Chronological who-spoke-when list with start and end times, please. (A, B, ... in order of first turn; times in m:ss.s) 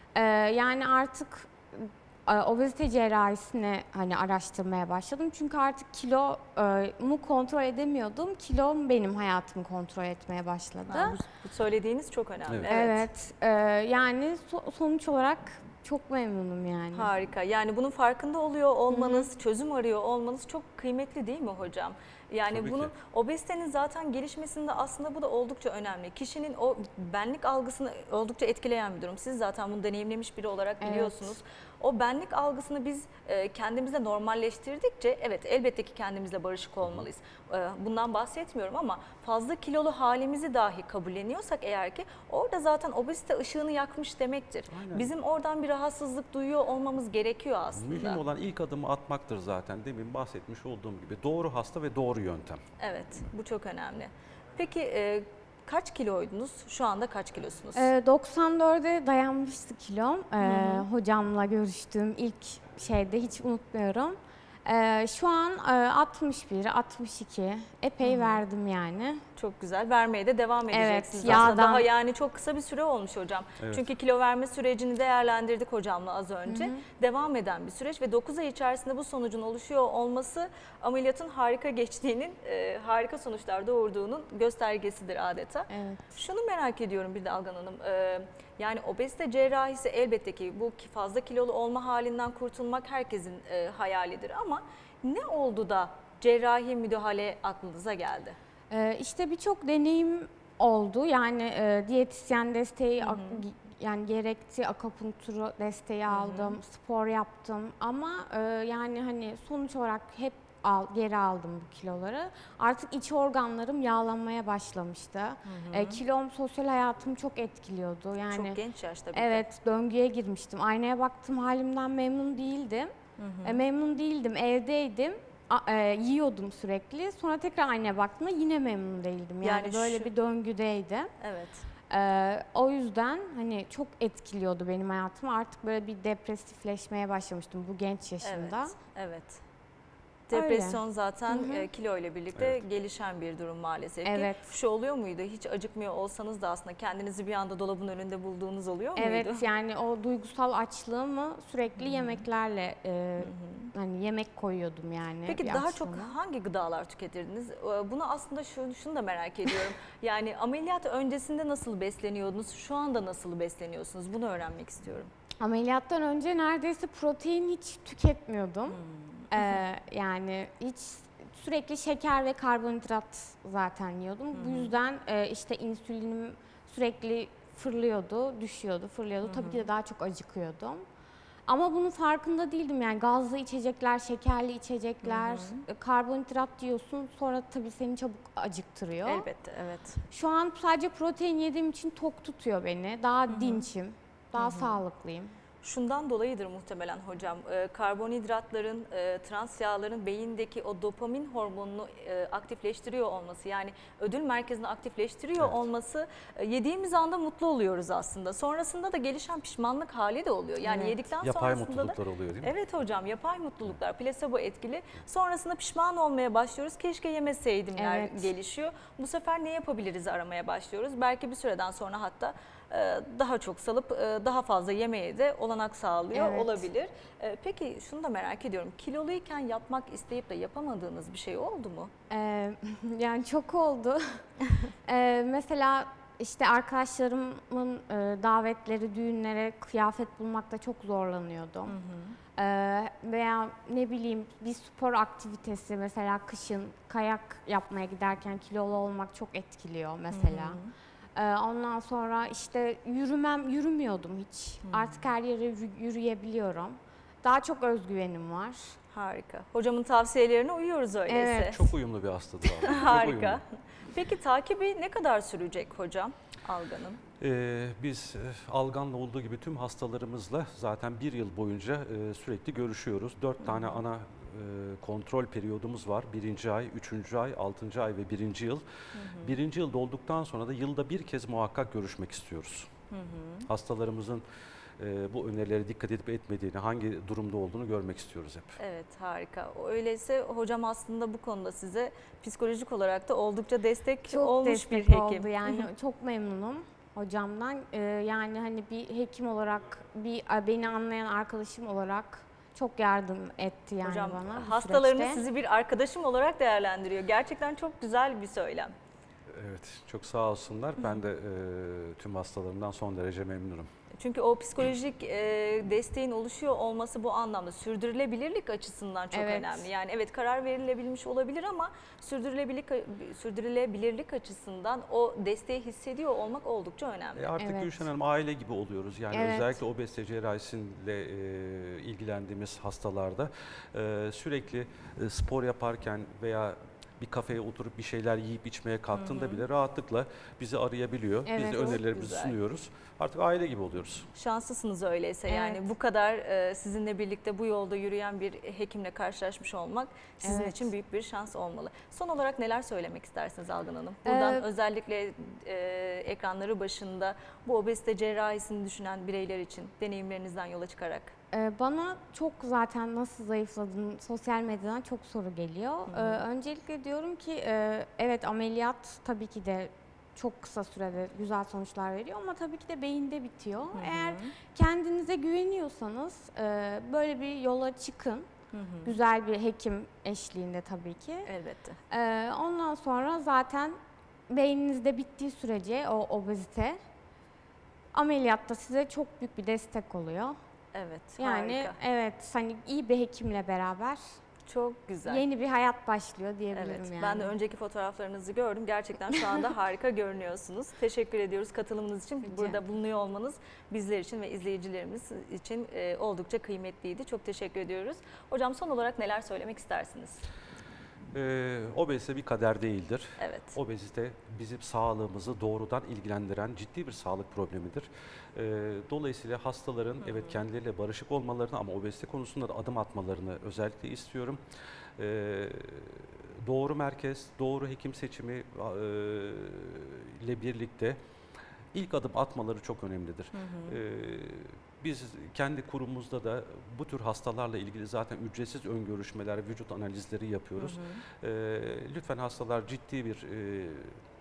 0:00.1-0:11.2 A
0:10.9-0:13.1 B
0:12.7-0:17.1 A
0:16.9-0:48.2 B
0:18.9-0:19.3 A
0:22.5-0:22.9 C
0:30.8-0:31.4 A
0:44.7-0:45.1 C
0:47.7-0:52.6 C
0:52.8-0:57.9 B
0:57.7-1:09.2 A
1:00.4-1:00.9 B
1:08.0-1:08.4 B
1:09.4-1:38.4 B
1:10.7-1:11.9 A
1:13.6-1:13.9 C
1:16.5-1:16.8 A
1:25.7-1:26.1 A
1:38.7-1:58.6 A
1:43.0-1:43.4 B
1:46.1-1:46.6 B
1:55.4-1:56.0 B
1:58.3-1:59.4 B
1:59.1-2:11.1 A
2:03.2-2:03.6 B
2:09.4-2:10.1 B
2:11.2-2:11.6 B
2:11.9-2:18.7 A
2:18.2-2:19.4 B
2:20.3-2:29.4 B
2:20.3-2:21.6 A
2:22.4-2:22.6 C
2:24.0-2:24.4 A
2:29.0-2:36.1 A
2:31.8-2:32.2 B
2:33.2-2:33.7 B
2:35.3-2:45.1 B
2:45.4-2:48.8 A
2:48.7-2:49.6 B
2:49.3-3:00.8 A
2:54.3-2:54.7 B
2:59.2-2:59.6 B
3:01.5-3:09.3 A
3:05.0-3:05.6 B
3:09.0-3:10.0 B
3:10.1-3:15.3 A
3:13.3-3:13.6 B
3:14.4-3:14.8 B
3:15.6-3:51.9 B
3:30.6-3:31.0 A
3:31.2-3:32.5 C
3:37.8-3:38.3 A
3:46.1-3:46.7 A
3:52.1-3:54.2 A
3:54.8-4:01.8 A
4:01.7-4:02.2 B
4:02.4-4:10.6 A
4:10.1-4:10.7 B
4:11.1-4:18.8 A
4:14.6-4:15.0 B
4:18.9-4:21.6 B
4:21.1-4:21.7 A
4:21.5-4:23.4 C
4:22.4-4:27.0 B
4:27.2-4:42.7 C
4:33.4-4:33.8 B
4:38.9-4:39.4 B
4:42.9-4:43.5 B
4:43.5-4:44.2 C
4:44.8-4:48.6 C
4:48.6-4:55.7 B
4:54.1-5:05.2 A
5:03.8-5:08.7 B
5:09.3-5:13.7 C
5:13.9-5:27.3 B
5:19.1-5:19.7 A
5:27.2-5:44.1 C
5:27.4-5:27.8 A
5:29.1-5:29.6 A
5:38.9-5:39.4 B
5:41.2-5:41.8 A
5:41.7-5:42.3 B
5:44.1-6:01.1 B
5:45.3-5:45.6 A
5:50.2-5:50.7 A
5:54.0-5:54.4 A
6:01.3-6:18.3 A
6:05.9-6:06.2 B
6:13.7-6:14.3 B
6:18.5-6:19.0 B
6:18.8-6:21.3 A
6:21.2-6:21.8 B
6:21.9-6:23.8 A
6:24.3-6:26.8 A
6:27.9-6:30.4 A
6:30.7-6:31.8 B
6:31.2-6:34.1 A
6:34.5-6:35.2 B
6:35.0-6:37.3 A
6:36.5-6:50.2 B
6:42.2-6:42.6 A
6:51.1-7:04.4 C
6:53.2-6:53.6 B
7:00.0-7:00.4 B
7:05.0-7:11.0 C
7:11.7-7:24.0 C
7:13.3-7:13.7 B
7:20.6-7:21.0 B